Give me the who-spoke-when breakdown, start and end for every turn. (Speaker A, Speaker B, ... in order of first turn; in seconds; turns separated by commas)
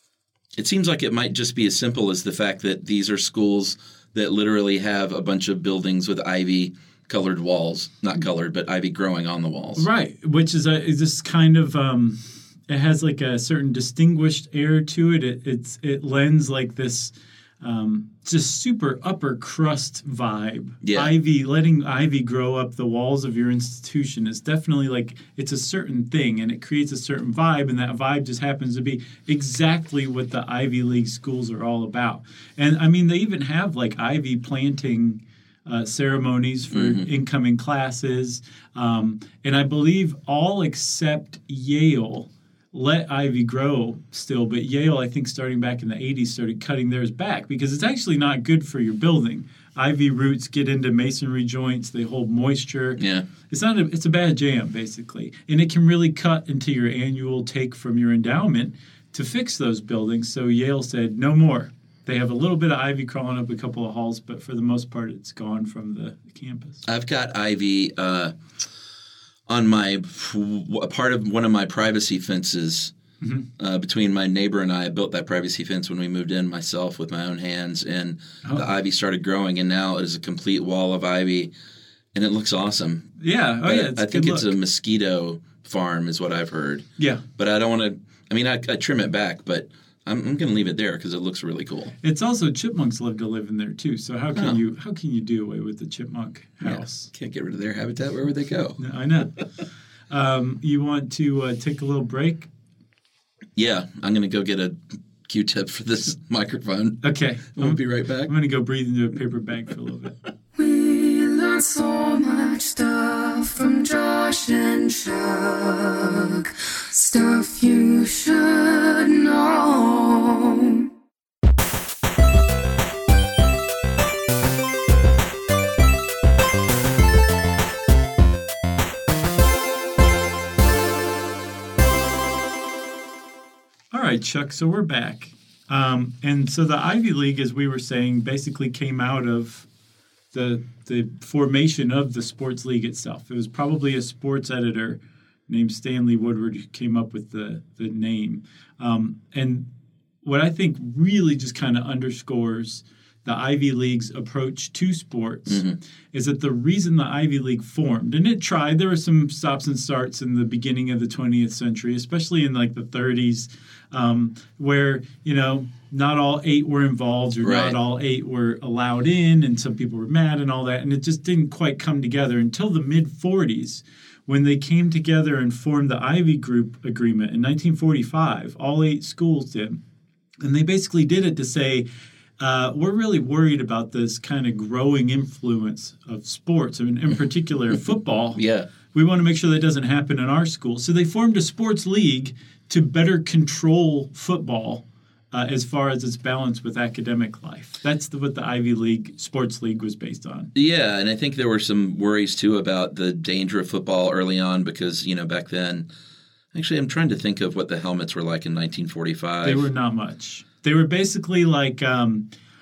Speaker A: 0.6-9.9, Speaker B: 9.8-66.8, Speaker A: 20.8-21.1, Speaker A: 36.7-37.0, Speaker A: 53.0-53.2, Speaker A: 66.8-68.3, Speaker A: 69.5-72.9, Speaker B: 73.2-73.5, Speaker A: 73.6-81.5, Speaker A: 82.1-83.1, Speaker B: 83.2-84.5, Speaker A: 83.6-91.9, Speaker B: 87.0-87.2, Speaker B: 92.0-97.1, Speaker A: 96.6-98.8, Speaker B: 98.8-99.3, Speaker B: 100.1-102.5, Speaker A: 103.5-107.0, Speaker B: 107.0-110.2, Speaker A: 107.5-108.3, Speaker C: 110.5-120.9, Speaker B: 133.9-139.7, Speaker B: 140.3-149.6, Speaker B: 150.2-179.8, Speaker A: 155.5-155.8, Speaker A: 167.4-167.8, Speaker B: 180.4-181.8, Speaker B: 182.4-200.5, Speaker A: 188.3-188.7, Speaker A: 200.5-205.9, Speaker A: 206.5-209.7, Speaker B: 209.4-212.2